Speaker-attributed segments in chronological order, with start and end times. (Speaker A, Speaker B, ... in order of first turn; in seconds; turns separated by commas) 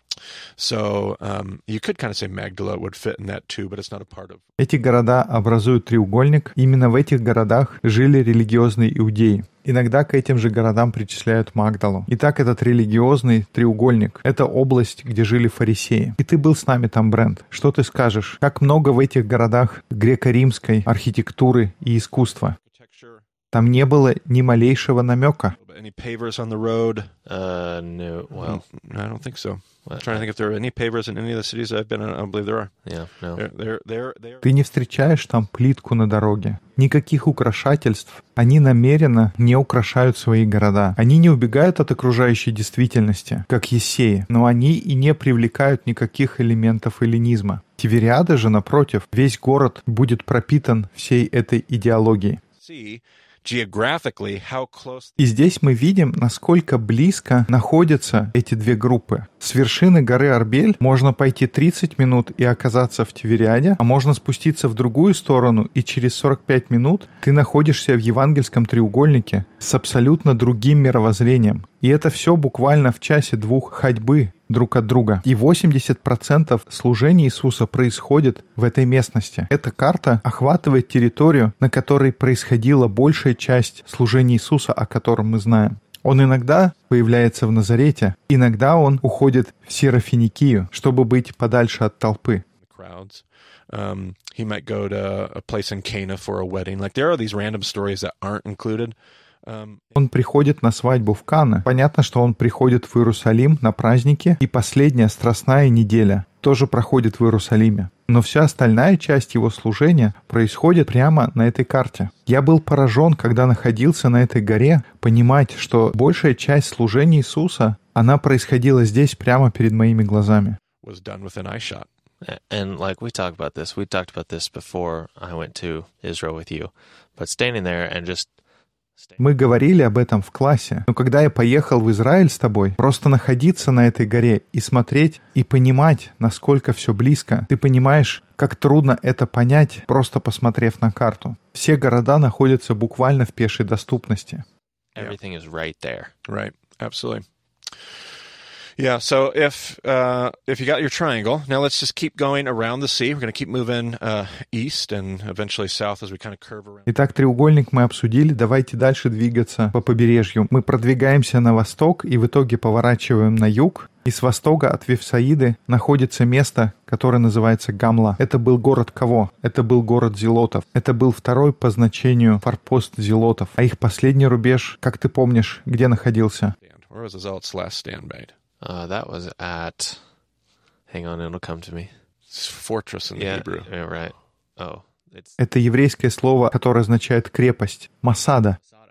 Speaker A: 0.6-4.4, Speaker B: 4.6-22.6, Speaker A: 22.6-23.2, Speaker B: 23.5-25.6, Speaker A: 25.6-27.1, Speaker C: 27.3-28.6, Speaker A: 28.4-32.8, Speaker C: 29.9-30.3, Speaker C: 32.9-33.4, Speaker A: 33.4-34.4, Speaker B: 34.4-52.4, Speaker A: 52.6-55.2, Speaker B: 55.2-92.4, Speaker A: 92.7-99.8, Speaker B: 100.0-120.6, Speaker A: 120.8-121.9, Speaker C: 122.2-128.3, Speaker B: 129.2-144.4, Speaker C: 144.9-146.1, Speaker A: 146.3-147.2, Speaker A: 148.8-156.9, Speaker B: 156.9-176.6, Speaker A: 176.6-178.3, Speaker C: 178.6-180.2, Speaker C: 180.9-182.0, Speaker A: 182.3-183.7, Speaker C: 183.2-185.4, Speaker B: 185.4-188.6